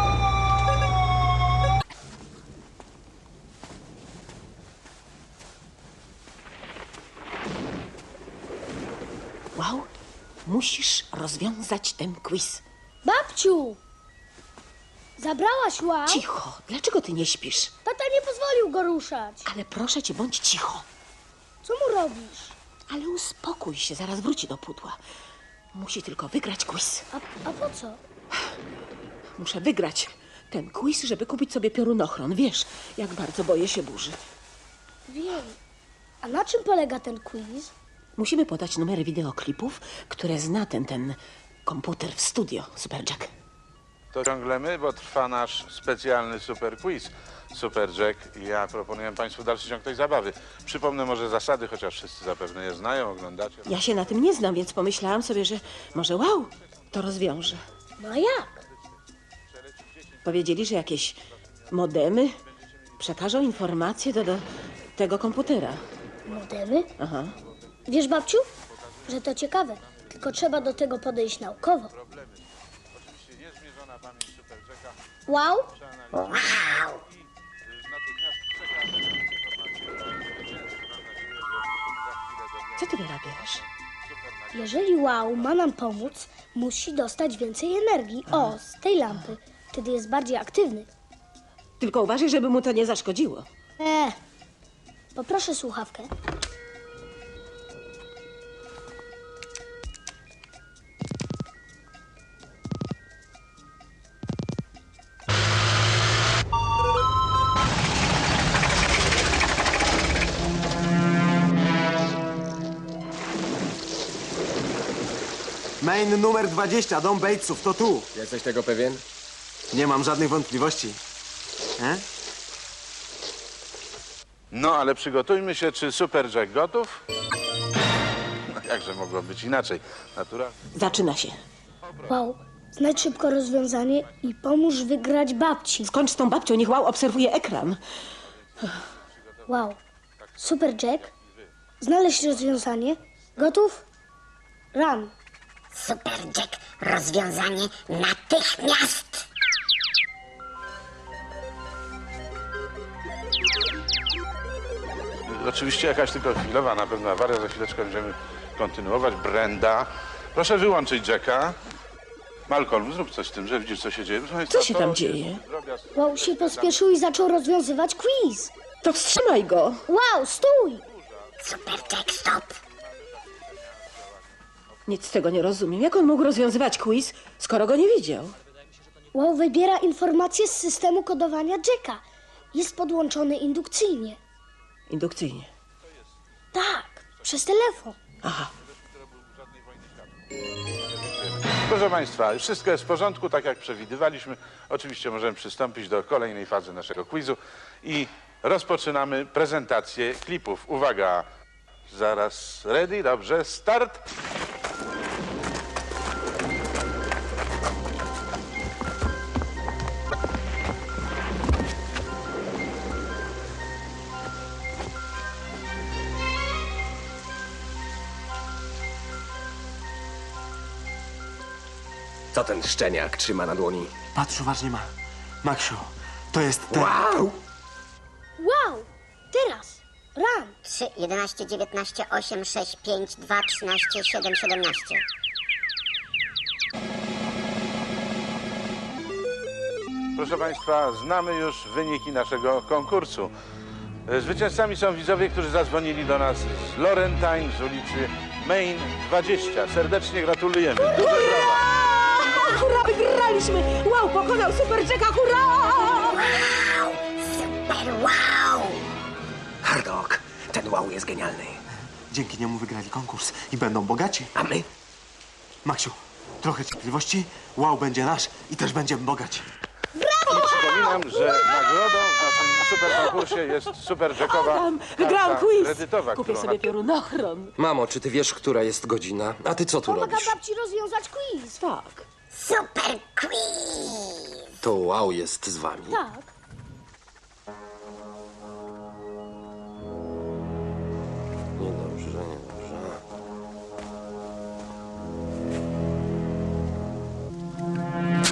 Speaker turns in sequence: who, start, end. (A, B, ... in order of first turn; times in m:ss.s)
0:09.6-0:09.9 A
0:10.5-0:12.6 A
0:13.0-0:13.8 B
0:15.2-0:16.2 B
0:16.1-0:17.7 A
0:17.8-0:19.5 B
0:19.4-0:20.9 A
0:21.6-0:22.6 B
0:22.9-0:25.0 A
0:25.7-0:27.1 A
0:27.1-0:28.0 B
0:29.4-0:34.2 A
0:35.1-0:35.6 B
0:36.2-0:37.7 B
0:38.2-0:43.3 A
0:44.1-0:54.1 C
0:53.7-0:57.6 A
0:58.0-0:58.6 B
0:59.6-1:00.2 C
1:00.2-1:02.4 A
1:03.0-1:04.4 A
1:03.2-1:03.5 C
1:05.0-1:05.8 A
1:06.3-1:06.9 B
1:07.0-1:07.3 A
1:07.9-1:08.5 B
1:08.8-1:10.7 C
1:09.1-1:11.9 B
1:12.0-1:15.1 C
1:15.3-1:15.7 B
1:15.7-1:25.6 C
1:16.2-1:17.0 D
1:22.8-1:23.6 A
1:24.5-1:30.9 B
1:31.8-1:33.5 A
1:33.8-1:34.2 B
1:35.2-1:36.1 B
1:55.8-1:58.1 E
1:58.1-1:59.0 F
1:59.7-2:01.0 E
2:01.8-2:02.0 E
2:04.5-2:07.0 C
2:08.5-2:10.6 C
2:10.8-2:11.4 A
2:12.1-2:15.9 B
2:12.9-2:13.3 C
2:15.8-2:17.8 A
2:18.5-2:19.4 C
2:19.5-2:19.8 B
2:20.3-2:21.5 C
2:20.4-2:21.1 B
2:21.8-2:23.9 B
2:24.7-2:25.1 B
2:25.7-2:29.2 D
2:35.3-2:41.6 C
2:42.5-2:47.3 C
2:44.5-2:45.4 A
2:46.0-2:48.5 B
2:48.8-2:49.8 A
2:49.9-2:50.8 B
2:51.2-2:52.3 C
2:51.4-2:52.6 D
2:53.1-2:54.2 C
2:54.9-2:58.4 A
2:59.1-3:04.2 B
3:04.9-3:05.5 A
3:06.5-3:08.0 B
3:08.2-3:08.5 A
3:08.7-3:10.2 C
3:10.8-3:21.3 C
3:21.9-3:24.0 C
3:42.3-3:43.9 F
3:44.2-3:44.9 E
3:45.4-3:47.0 E
3:46.7-3:47.4 F
3:48.4-3:50.6 B
3:50.6-3:55.0 D
4:00.2-4:03.3 C
4:04.1-4:11.6 C
4:10.8-4:16.3 A
4:16.1-4:18.8 D
4:19.6-4:21.6 F
4:22.1-4:24.3 E
4:24.4-4:24.7 F
4:25.6-4:29.5 E
4:30.2-4:30.8 B
4:30.3-4:32.0 A
4:30.3-4:36.7 C
4:32.8-4:37.6 A
4:37.6-4:40.4 G
4:39.9-4:41.6 B
4:41.6-4:42.1 A
4:42.3-4:44.4 D
4:44.6-4:46.0 G
4:45.9-4:46.3 B
4:51.6-4:53.0 G